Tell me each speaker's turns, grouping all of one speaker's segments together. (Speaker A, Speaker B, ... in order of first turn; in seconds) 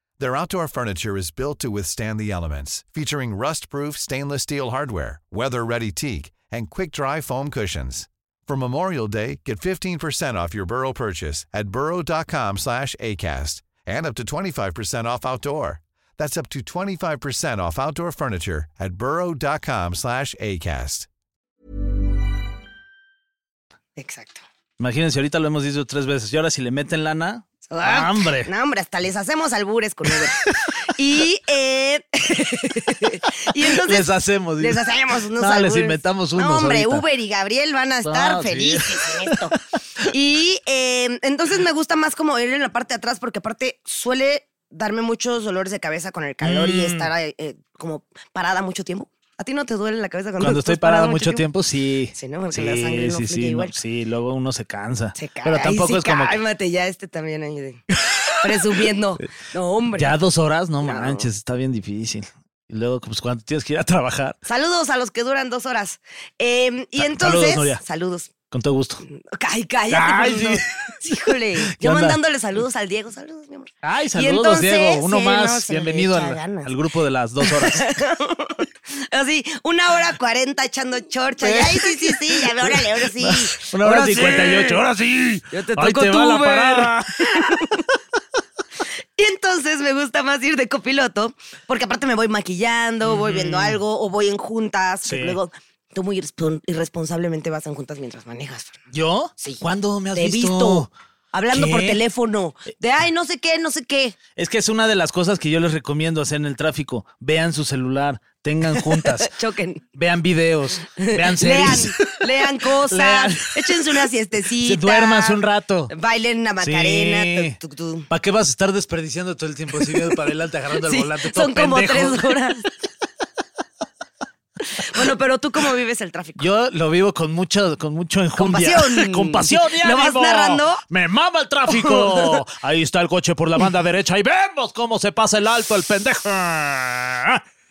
Speaker A: 0.2-21.1
Speaker B: 24.0-24.4, 27.7-34.1, 34.6-39.5, 40.1-51.4, 52.1-53.7, 55.2-57.8, 58.4-60.1, 60.8-61.3, 64.5-68.3, 69.0-76.7, 77.4-84.8, 85.5-87.8, 89.2-98.8, 100.1-104.2, 108.7-109.8, 111.0-115.4, 115.9-118.1, 120.8-122.6, 124.8-126.4, 128.4-130.8, 131.7-132.4
Speaker C: 24.8-28.5, 30.2-30.7, 33.6-34.8, 35.4-37.0, 38.0-39.5, 46.4-47.1, 50.4-56.4, 57.9-58.8, 59.9-64.4, 67.0-67.8, 68.5-69.0, 69.9-72.2, 73.8-77.9, 81.4-87.6, 93.0-93.8, 95.0-95.4, 98.9-100.9, 101.5-102.0, 104.3-109.3, 110.0-112.1, 112.8-114.0, 114.5-115.9, 116.6-117.6, 118.1-122.4, 126.4-137.4